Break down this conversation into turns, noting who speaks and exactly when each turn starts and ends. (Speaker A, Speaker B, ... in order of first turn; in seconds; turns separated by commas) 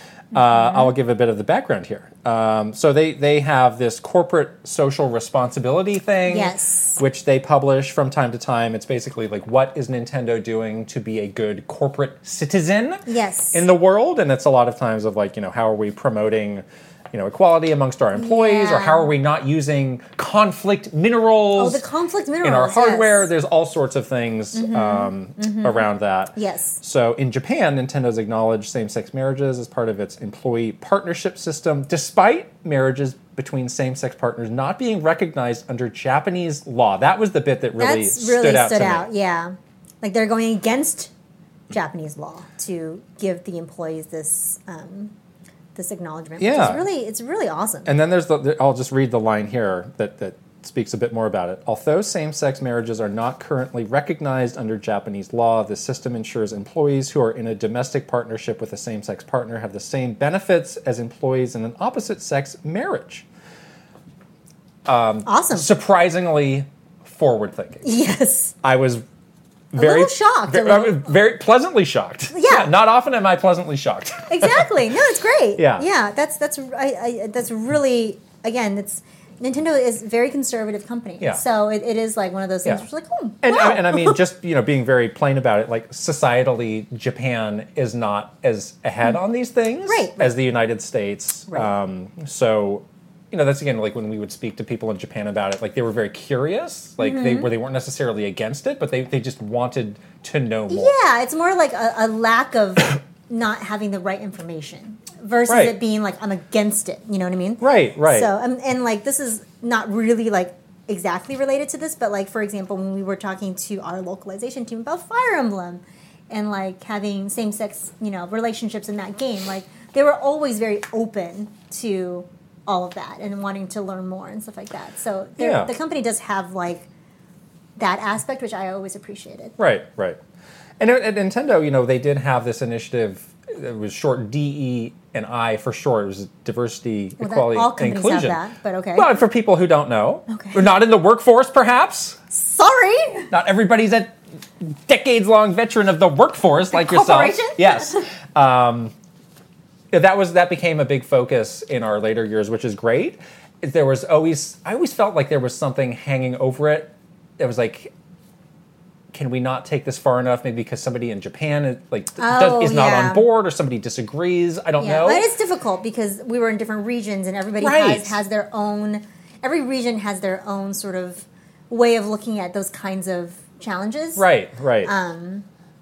Speaker A: 0.3-21.8, Speaker B: 0.3-0.9, Speaker B: 6.3-7.0, Speaker B: 13.1-13.7, Speaker B: 18.1-19.1, Speaker B: 21.6-23.3, Speaker A: 22.4-39.1, Speaker B: 24.5-26.8, Speaker B: 37.8-41.1, Speaker B: 41.7-45.1, Speaker B: 45.8-47.9, Speaker A: 46.4-46.9, Speaker A: 47.9-63.3, Speaker A: 64.9-67.9, Speaker B: 65.2-65.7, Speaker B: 67.8-68.5, Speaker A: 68.6-69.0, Speaker A: 69.7-74.7, Speaker B: 69.8-71.1, Speaker B: 72.3-72.7, Speaker B: 74.3-84.2, Speaker A: 75.6-75.9, Speaker A: 83.4-100.9, Speaker B: 89.9-90.3, Speaker B: 97.0-97.5, Speaker B: 100.7-126.9, Speaker A: 105.5-105.8, Speaker A: 107.6-108.3, Speaker A: 125.4-125.7, Speaker B: 127.8-129.6, Speaker A: 129.6-130.2, Speaker A: 130.8-138.4, Speaker B: 137.2-139.1, Speaker A: 138.9-142.2, Speaker B: 140.3-140.7, Speaker B: 142.3-143.3, Speaker A: 143.3-148.9, Speaker B: 146.7-148.1, Speaker A: 149.9-157.9, Speaker A: 159.1-165.3, Speaker B: 162.2-163.3, Speaker B: 164.8-174.3, Speaker A: 167.6-168.2, Speaker A: 174.2-174.9, Speaker B: 174.8-175.5